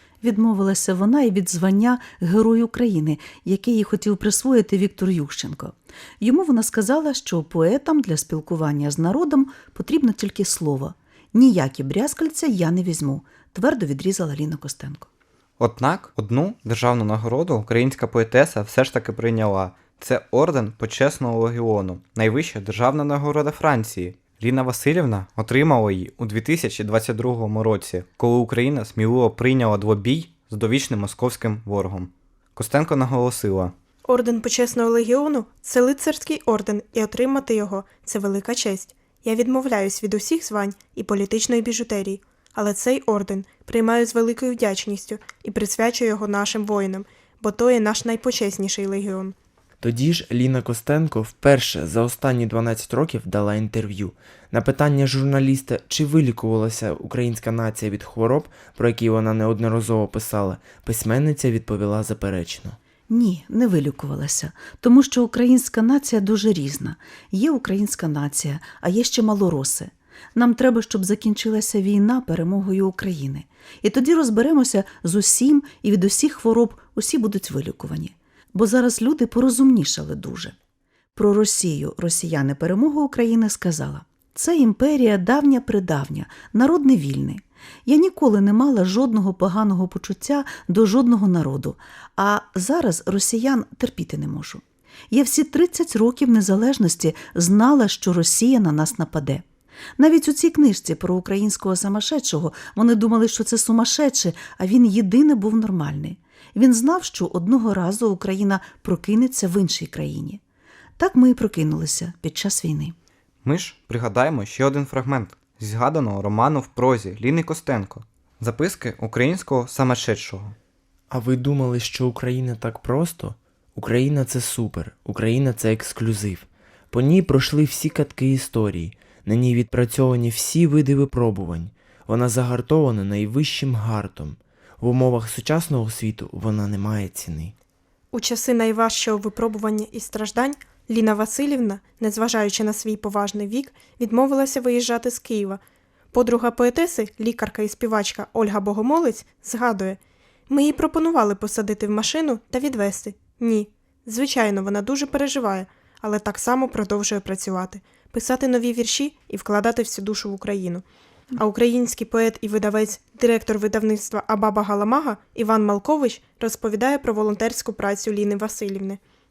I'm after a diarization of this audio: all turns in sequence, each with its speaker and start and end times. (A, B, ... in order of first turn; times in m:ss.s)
0:00.2-0:15.1 A
0:15.6-0:33.7 B
0:34.0-0:49.3 C
0:49.8-1:02.8 D
1:03.1-1:20.5 A
1:21.2-1:39.4 A
1:40.0-1:50.4 A
1:51.0-1:52.9 A
1:53.4-2:00.5 B
2:01.1-2:17.5 D
2:18.1-2:25.6 C
2:26.1-2:40.8 C
2:41.4-2:49.0 C